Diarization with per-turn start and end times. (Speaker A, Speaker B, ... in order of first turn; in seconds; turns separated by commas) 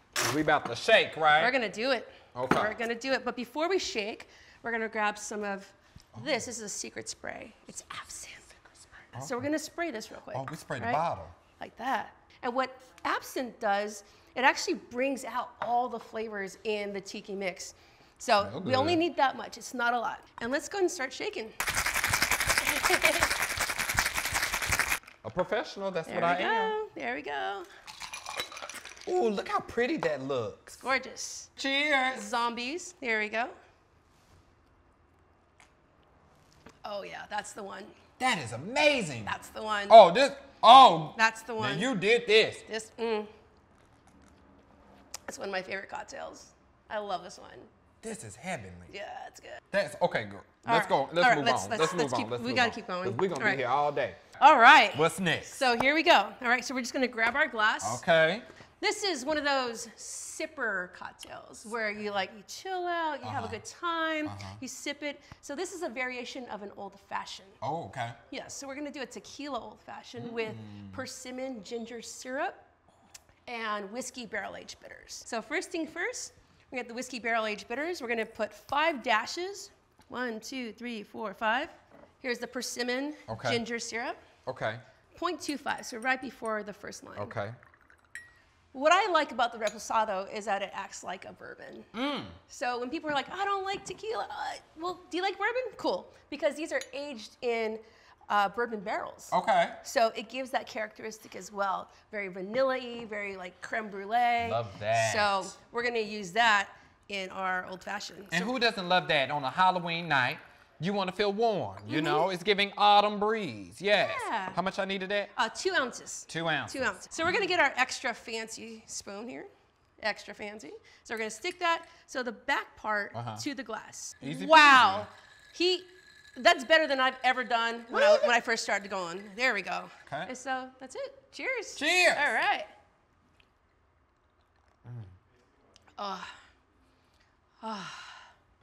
Speaker A: 0.2-1.5, Speaker B: 1.4-8.6, Speaker A: 2.3-2.7, Speaker B: 9.1-11.0, Speaker A: 9.1-9.4, Speaker A: 10.3-11.3, Speaker B: 11.6-21.5, Speaker A: 18.4-19.0, Speaker B: 22.6-23.3, Speaker A: 25.2-26.8, Speaker B: 26.1-27.7, Speaker A: 29.1-30.8, Speaker B: 30.8-31.5, Speaker A: 31.6-32.3, Speaker B: 32.1-33.5, Speaker B: 36.8-37.9, Speaker A: 38.2-39.3, Speaker B: 39.2-40.0, Speaker A: 39.9-42.6, Speaker B: 41.1-41.9, Speaker B: 42.6-43.3, Speaker B: 45.3-47.7, Speaker A: 48.0-48.9, Speaker B: 48.9-49.6, Speaker A: 49.7-54.2, Speaker B: 50.6-53.6, Speaker B: 54.4-58.0, Speaker A: 54.9-55.6, Speaker A: 57.8-58.5, Speaker B: 58.8-67.6, Speaker A: 63.2-63.6, Speaker A: 64.2-64.6, Speaker A: 67.6-68.2, Speaker B: 68.3-72.6, Speaker A: 70.2-71.0, Speaker B: 73.5-84.2, Speaker A: 83.3-83.6, Speaker A: 84.5-84.8, Speaker B: 85.1-87.3, Speaker A: 87.2-87.5, Speaker B: 88.7-91.9, Speaker A: 91.9-92.4, Speaker B: 92.5-108.5, Speaker A: 99.3-99.8, Speaker A: 104.4-105.5, Speaker A: 108.3-115.3, Speaker B: 111.9-112.3, Speaker B: 114.0-114.6, Speaker B: 115.3-119.5, Speaker A: 116.3-116.9, Speaker B: 120.0-132.7, Speaker A: 123.1-123.4, Speaker A: 124.2-125.1, Speaker A: 127.9-128.3, Speaker A: 130.1-130.3, Speaker A: 131.8-132.3, Speaker A: 134.8-135.1, Speaker B: 136.0-136.3, Speaker B: 137.6-138.2